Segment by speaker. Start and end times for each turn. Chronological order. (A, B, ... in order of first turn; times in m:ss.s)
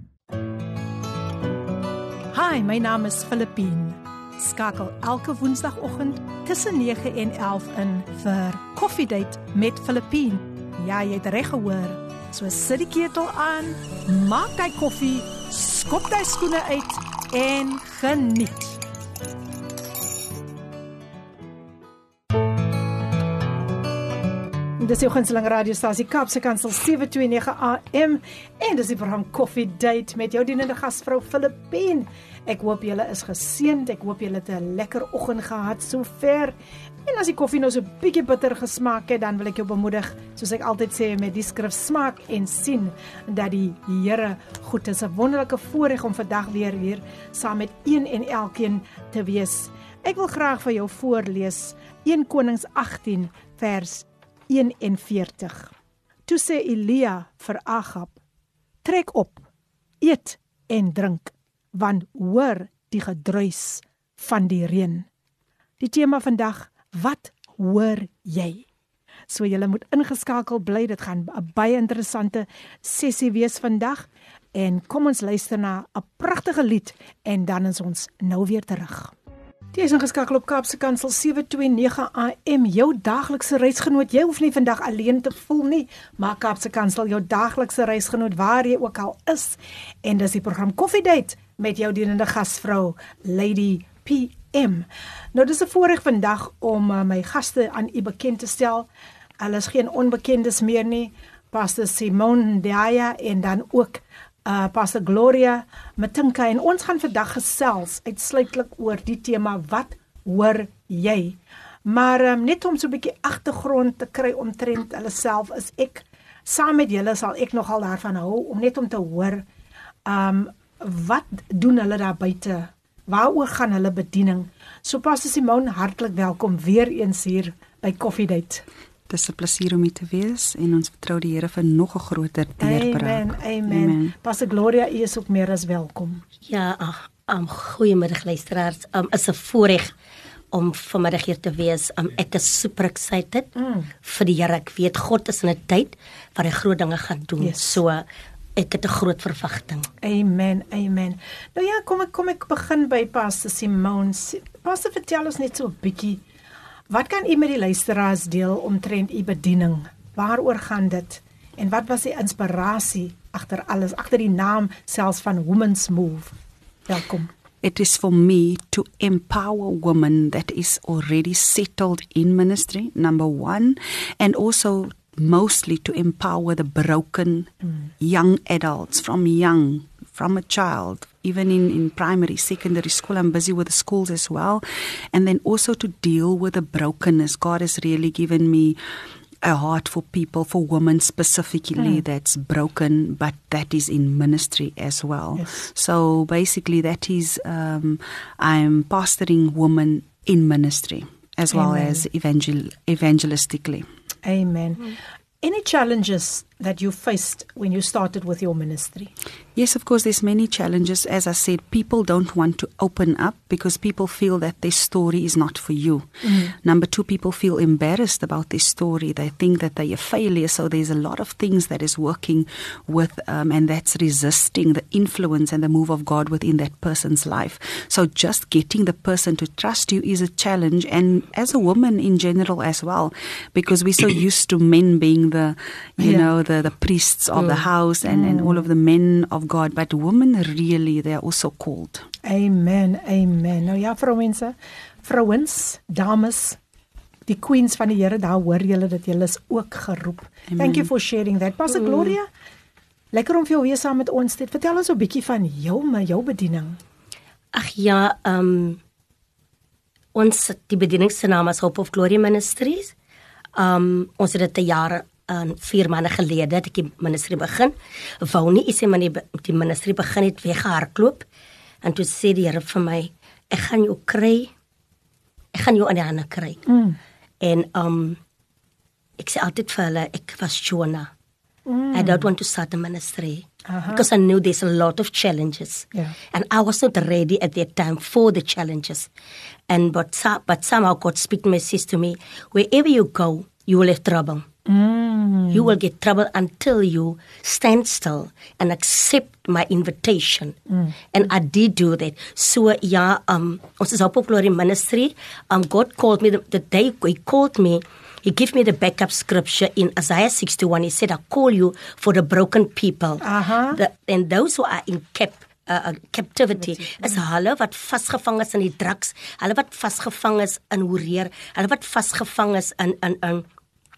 0:02.3-0:18.8 A
0:24.8-0:36.5 A
0:37.0-0:55.7 A
0:56.3-0:58.2 A
0:58.8-0:59.4 A
1:00.0-1:05.0 A
1:05.8-1:08.6 A
1:09.3-1:19.1 A
1:19.7-1:38.9 A
1:39.4-1:59.4 A
2:00.0-2:08.6 A
2:09.1-2:14.1 B
2:12.6-2:16.2 A
2:16.4-2:19.9 C
2:20.5-2:23.5 C
2:23.6-2:23.9 A
2:24.0-2:28.0 C
2:27.4-2:27.8 A
2:28.6-2:29.9 C
2:30.0-2:36.2 A
2:36.9-2:46.3 A
2:46.9-2:47.3 A
2:47.6-3:08.8 B
3:09.4-3:23.9 B
3:15.4-3:15.6 A
3:21.5-3:22.0 A
3:24.2-3:29.1 A
3:29.6-4:02.1 B
3:36.2-3:36.5 A
3:56.0-3:56.3 A
3:58.0-3:58.7 A
4:02.2-4:06.6 A
4:07.3-4:12.2 A
4:10.5-4:10.9 B
4:11.8-4:12.1 C
4:13.1-4:16.8 A
4:17.5-4:18.8 C
4:20.1-4:22.9 C
4:23.6-4:31.2 C
4:31.8-4:34.5 C
4:35.5-4:36.6 C
4:36.7-4:37.0 A
4:37.4-4:38.2 C
4:39.2-4:41.1 C
4:41.6-4:42.3 A
4:41.9-4:49.1 C
4:43.7-4:44.0 A
4:49.7-4:54.4 C
4:54.7-4:55.7 A
4:55.5-5:00.6 C
5:01.1-5:23.4 C
5:13.2-5:13.8 A